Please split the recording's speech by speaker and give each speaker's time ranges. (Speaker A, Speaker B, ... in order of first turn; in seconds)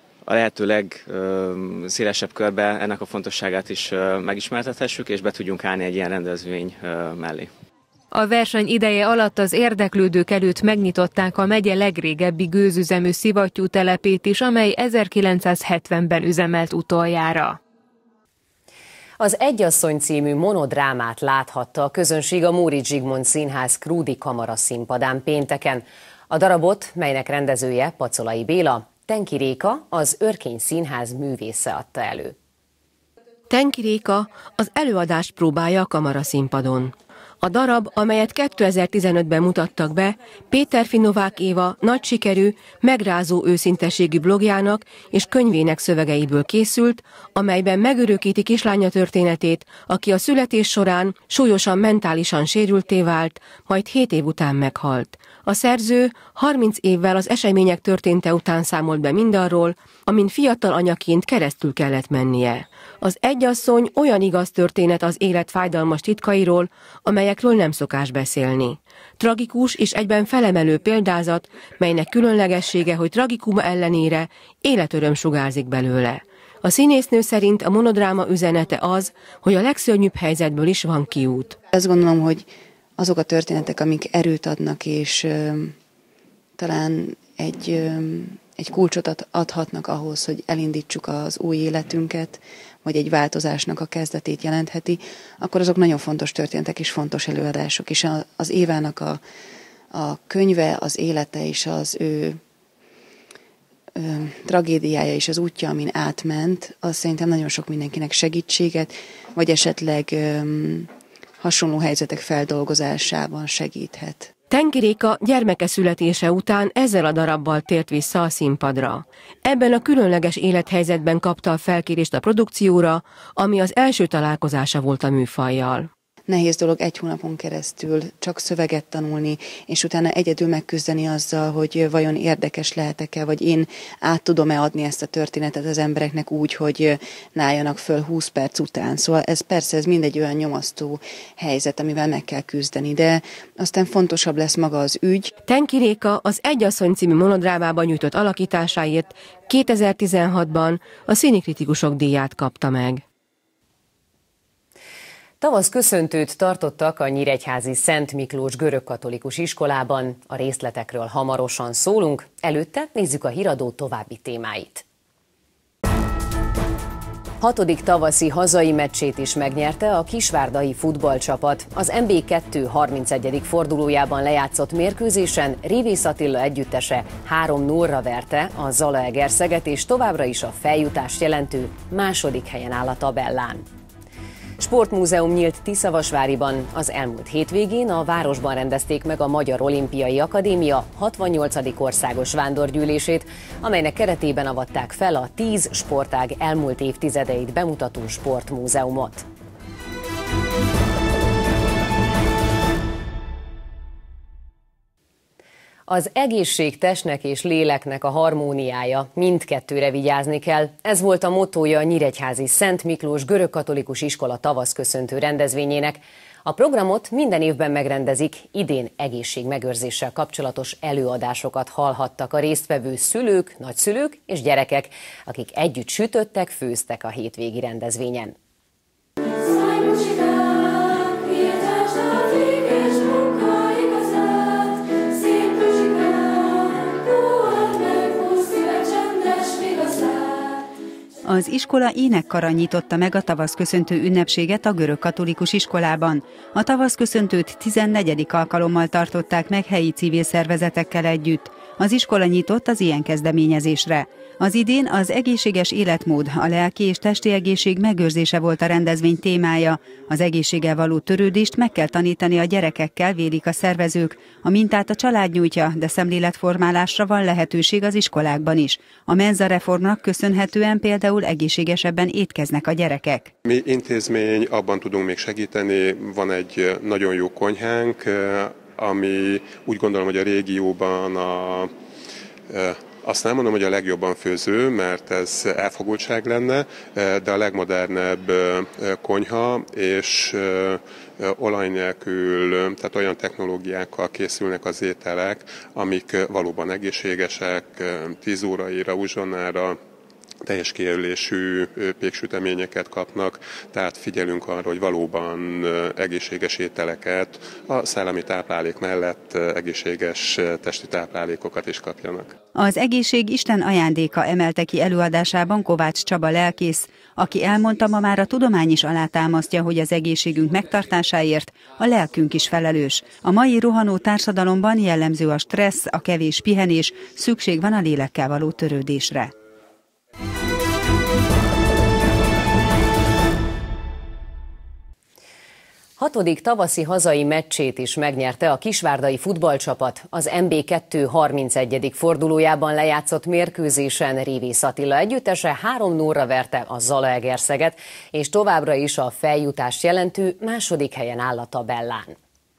Speaker A: 0.2-7.5
Speaker B: 8.1-17.6, 239.4-239.9
Speaker C: 19.2-32.3, 155.4-164.8, 167.4-183.6, 184.6-199.2, 205.9-228.3, 336.0-352.1
Speaker D: 33.5-81.6, 114.5-125.9, 145.4-153.0
Speaker E: 81.7-85.8, 86.6-99.2, 99.9-102.4, 104.0-114.3, 126.3-145.3
Speaker F: 241.2-273.3, 312.5-329.3
Speaker G: 273.4-281.7, 282.5-299.8, 300.4-312.4